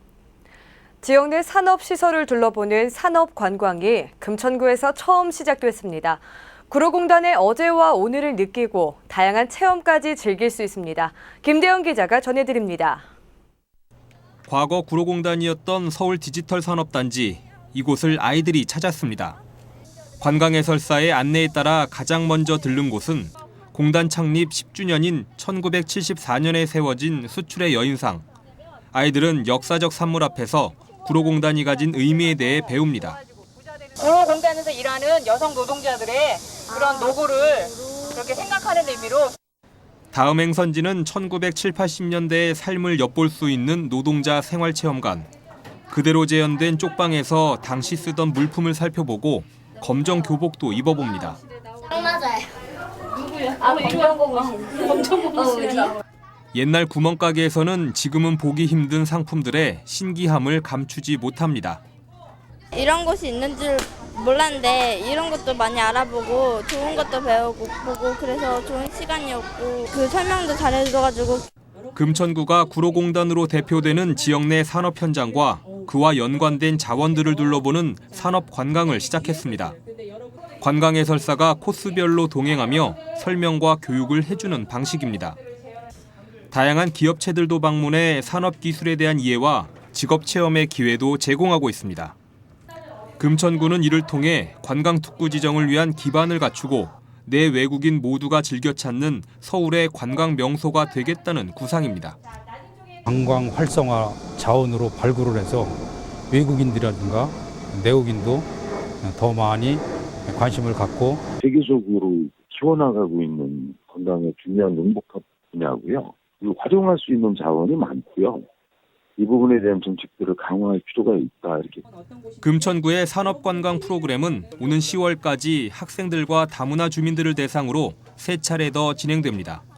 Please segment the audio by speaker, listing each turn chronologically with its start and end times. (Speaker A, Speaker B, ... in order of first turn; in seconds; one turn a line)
Speaker A: 1.0-13.0
Speaker B: 14.5-19.4
Speaker B: 20.2-28.2
Speaker B: 28.9-33.2
Speaker C: 34.0-39.3
Speaker B: 40.1-45.3
Speaker B: 45.9-51.4
Speaker D: 51.9-52.4
Speaker D: 53.2-56.0
Speaker B: 56.5-61.8
Speaker E: 62.7-71.4
Speaker B: 71.9-79.8
Speaker B: 80.6-85.4
Speaker B: 86.5-92.1
Speaker B: 93.2-102.2
Speaker F: 103.0-105.8
Speaker F: 106.3-108.5
Speaker F: 109.0-111.2
Speaker G: 111.4-118.5
Speaker G: 119.2-121.8
Speaker B: 122.4-129.6